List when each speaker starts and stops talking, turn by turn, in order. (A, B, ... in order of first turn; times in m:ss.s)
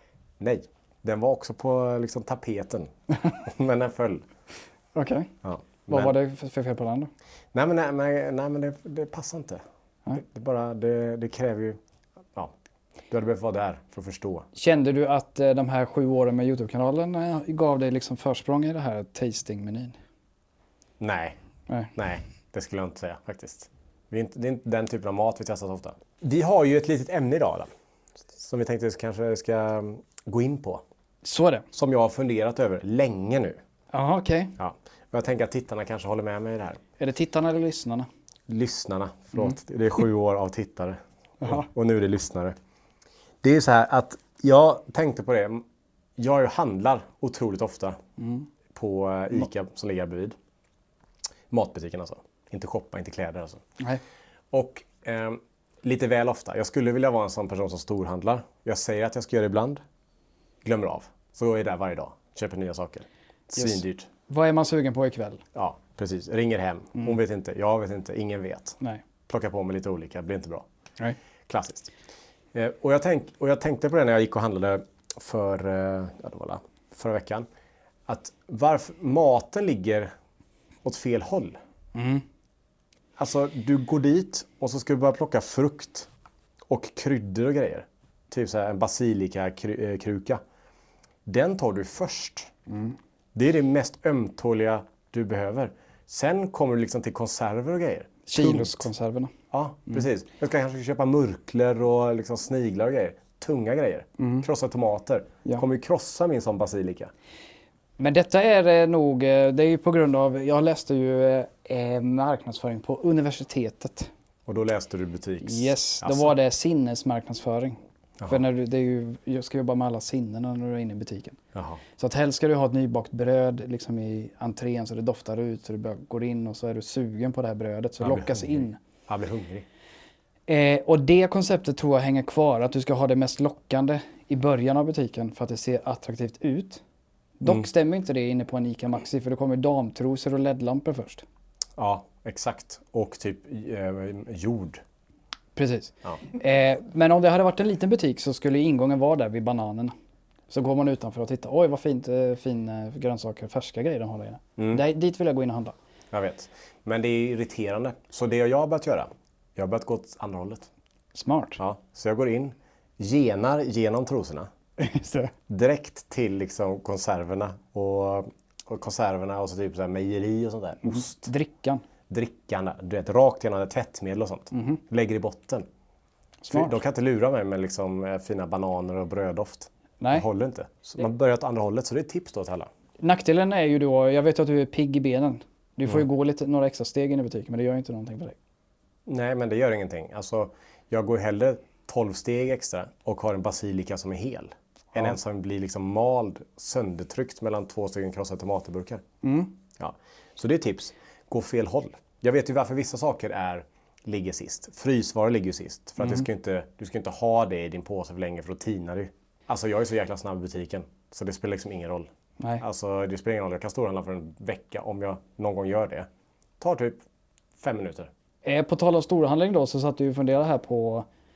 0:00.4-0:04.2 A
0:04.9-0:05.3 B
0:05.4-0:06.1 A
0:05.9-0:07.1 B
0:07.5-0:09.6 A
0:10.1-0:11.8 A
0:13.1-0:14.5 A
0:14.5-0:20.0 B
0:21.0-0:21.4 A
0:21.9-0:27.7 A
0:28.3-0:30.8 A
0:31.2-0:31.6 B
0:31.7-0:33.6 A
0:33.9-0:34.5 B
0:34.6-0:36.8 A
0:37.0-0:38.1 B
0:38.5-0:42.5 A
0:41.4-0:41.7 B
0:43.4-0:45.6 A
0:46.2-0:48.0 A
0:48.2-0:48.5 B
0:48.7-0:50.4 A
0:51.5-0:53.6 A
0:54.5-0:59.8 A
1:00.6-1:04.1 A
1:03.6-1:05.4 B
1:05.5-1:08.8 A
1:09.3-1:10.6 A
1:11.5-1:11.9 A
1:12.5-1:17.5 A
1:18.1-1:20.1 A
1:20.8-1:21.6 A
1:21.9-1:22.2 B
1:23.2-1:26.1 A
1:26.7-1:30.4 A
1:31.2-1:32.5 A
1:32.7-1:32.9 B
1:33.3-1:38.9 A
1:38.3-1:39.3 B
1:39.5-1:47.1 A
1:44.2-1:44.5 B
1:48.0-1:54.1 B
1:54.4-1:56.3 A
1:55.4-2:01.4 B
2:01.5-2:01.8 A
2:02.0-2:08.8 B
2:08.0-2:09.6 A
2:10.5-2:16.8 B
2:17.4-2:21.2 B
2:21.8-2:24.8 A
2:25.6-2:29.9 B
2:30.5-2:35.7 B
2:34.6-2:34.8 A
2:36.1-2:40.7 A
2:41.1-2:41.6 B
2:41.6-2:44.5 A
2:44.8-2:45.3 B
2:45.5-2:51.3 A
2:50.8-2:51.8 B
2:52.1-2:55.6 A
2:54.5-2:54.8 B
2:56.4-2:56.8 B
2:56.5-3:02.7 A
3:00.0-3:00.2 B
3:03.0-3:08.4 B
3:09.0-3:19.0 A
3:19.2-3:19.5 B
3:19.8-3:36.1 A
3:26.0-3:26.2 B
3:36.6-3:37.0 A
3:37.6-3:38.1 A
3:38.4-3:41.1 B